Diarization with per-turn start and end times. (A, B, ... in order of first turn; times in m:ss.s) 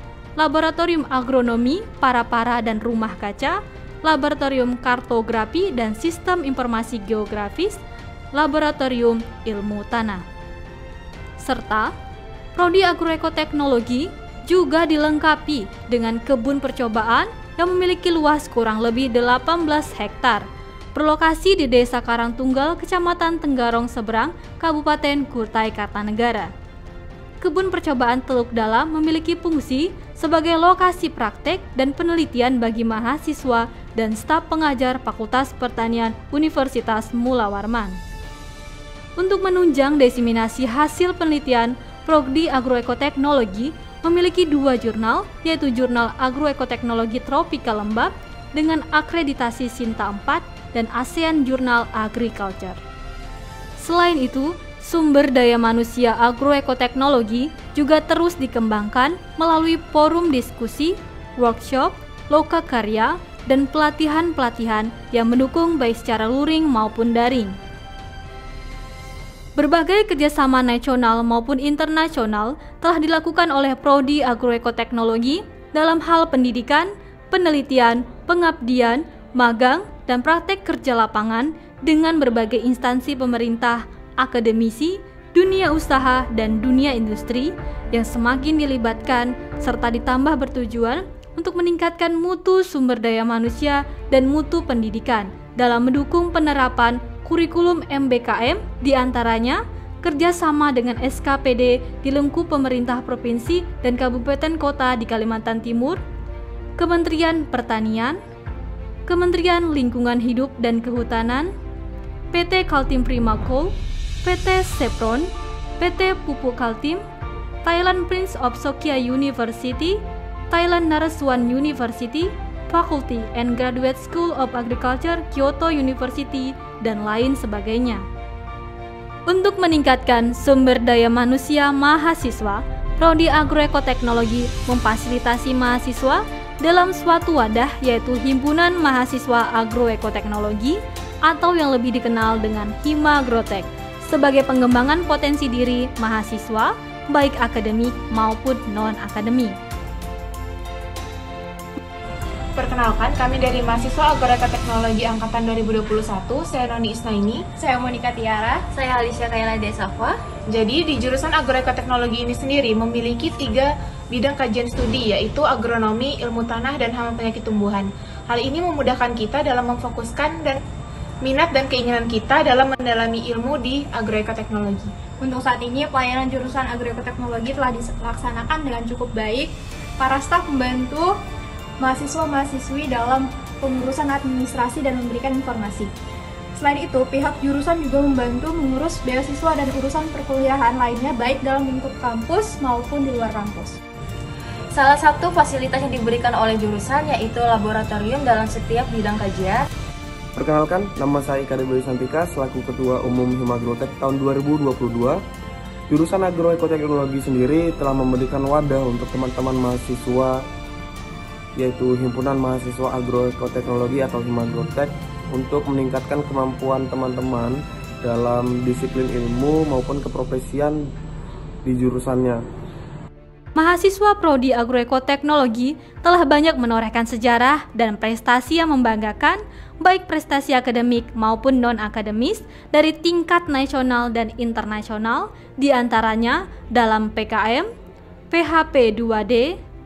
0:00.4-0:07.8 A
0:08.3-0:10.2 A
0:11.4-0:11.9 A
0:12.6-0:26.5 A
0:27.4-0:38.0 A
0:39.2-0:52.8 A
0:53.8-1:07.6 A
1:09.6-1:46.0 A
1:46.8-1:48.2 A
1:49.1-1:51.5 A
1:52.3-1:57.0 A
1:57.6-2:08.0 A
2:09.3-2:29.5 A
2:32.6-2:37.4 B
2:37.6-2:38.6 C
2:38.7-2:40.2 D
2:40.5-2:50.6 B
2:51.2-2:54.9 B
2:55.2-3:01.1 C
3:01.8-3:05.9 C
3:06.6-3:13.8 C
3:14.8-3:19.6 D
3:20.3-3:25.2 E
3:25.9-3:30.4 E
3:31.6-3:40.8 E
3:41.6-3:42.4 E
3:43.6-3:57.7 A
3:58.3-3:59.6 A